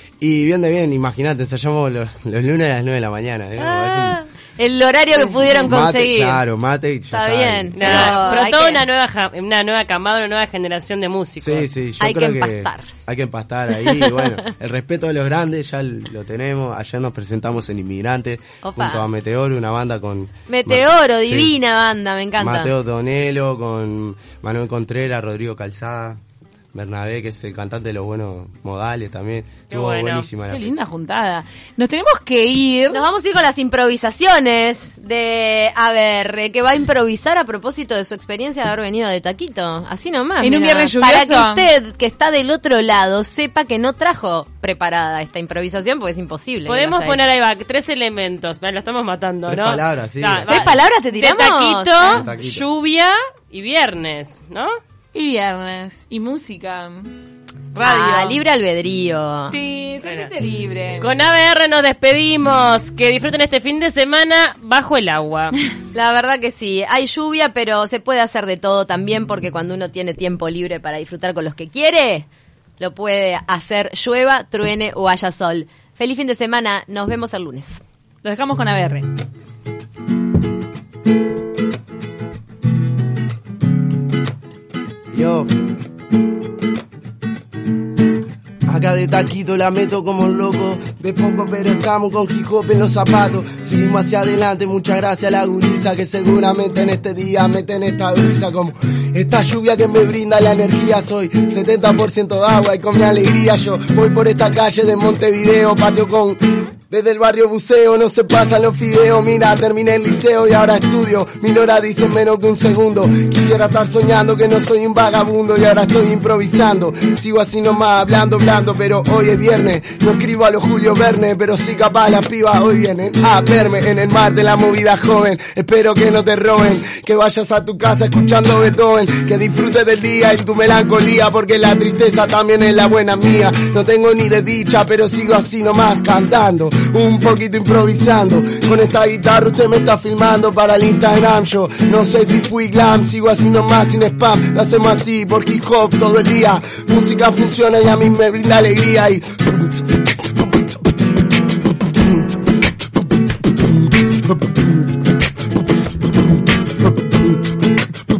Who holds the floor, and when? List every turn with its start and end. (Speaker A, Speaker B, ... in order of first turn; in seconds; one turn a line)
Speaker A: 0.2-4.2
Speaker B: 3.6-4.3
Speaker C: 4.6-6.4
Speaker A: 5.4-8.3
Speaker C: 7.1-8.8
Speaker B: 7.8-11.7
Speaker A: 11.4-21.5
Speaker C: 12.0-12.9
Speaker C: 13.9-14.5
Speaker C: 18.6-19.1
Speaker C: 20.5-22.7
Speaker A: 22.4-26.2
Speaker A: 26.7-30.8
Speaker B: 29.7-30.3
Speaker D: 30.5-33.0
Speaker C: 32.9-47.2
Speaker D: 40.4-41.7
Speaker B: 46.7-54.7
Speaker A: 49.5-50.6
Speaker C: 50.5-52.2
Speaker A: 52.1-52.6
Speaker D: 55.1-57.1
Speaker B: 57.7-58.4
Speaker C: 57.8-59.6
Speaker D: 59.5-61.1
Speaker B: 60.0-60.3
Speaker B: 61.0-65.5
Speaker C: 65.9-72.3
Speaker C: 72.8-77.8
Speaker D: 78.2-79.1
Speaker A: 85.1-85.5
Speaker A: 88.7-150.0
Speaker A: 152.0-152.4
Speaker A: 153.7-154.9
Speaker A: 157.0-157.4